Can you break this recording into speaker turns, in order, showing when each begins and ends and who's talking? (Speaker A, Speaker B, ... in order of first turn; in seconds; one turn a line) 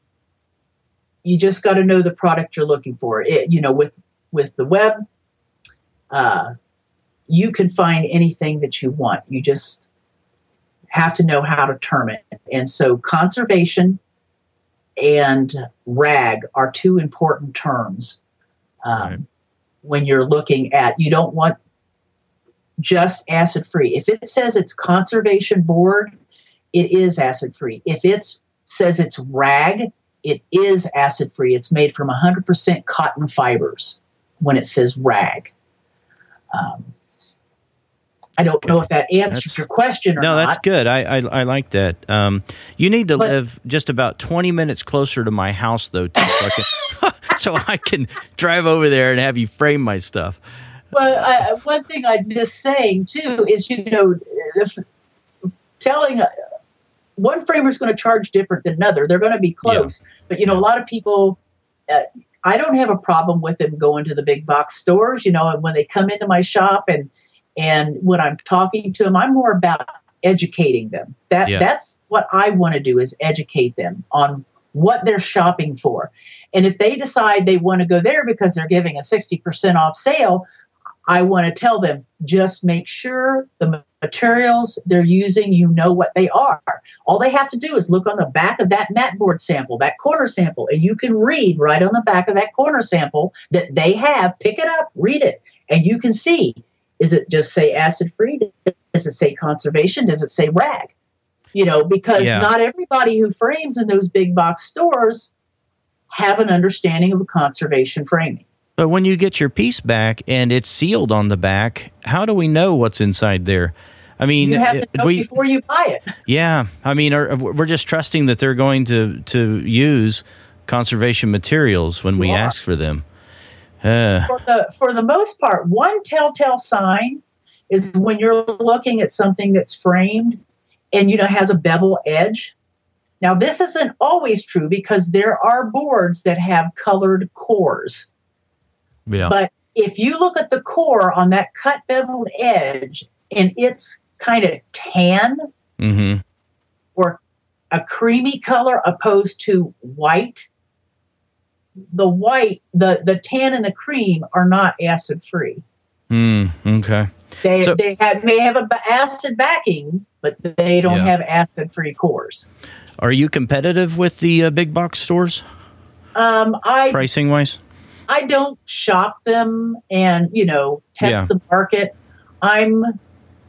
Speaker A: 1.2-5.0
Speaker A: 6.1-6.5
Speaker A: 7.3-9.9
Speaker A: 10.9-14.0
Speaker A: 15.0-18.2
Speaker A: 18.8-19.2
Speaker A: 19.8-21.6
Speaker A: 22.8-26.2
Speaker A: 26.7-35.5
Speaker A: 36.5-36.9
Speaker A: 38.4-40.6
Speaker B: 38.6-39.6
Speaker B: 40.2-50.4
Speaker A: 50.9-54.8
Speaker A: 55.8-56.3
Speaker A: 57.2-80.5
Speaker B: 59.6-59.9
Speaker A: 81.1-100.9
Speaker A: 101.5-105.3
Speaker B: 102.2-102.5
Speaker A: 106.1-108.5
Speaker B: 108.8-115.3
Speaker A: 114.4-116.1
Speaker B: 116.3-123.0
Speaker A: 122.2-122.5
Speaker B: 123.8-124.3
Speaker A: 124.3-130.4
Speaker A: 130.9-132.5
Speaker A: 133.2-138.1
Speaker B: 139.1-139.3
Speaker A: 139.2-145.5
Speaker B: 145.8-146.2
Speaker A: 146.9-147.2
Speaker A: 147.7-150.5
Speaker A: 151.9-155.6
Speaker B: 156.1-157.8
Speaker A: 157.4-162.5
Speaker B: 160.9-161.1
Speaker B: 163.0-165.4
Speaker A: 166.2-167.1
Speaker B: 166.9-167.6
Speaker A: 168.1-173.0
Speaker B: 171.0-171.3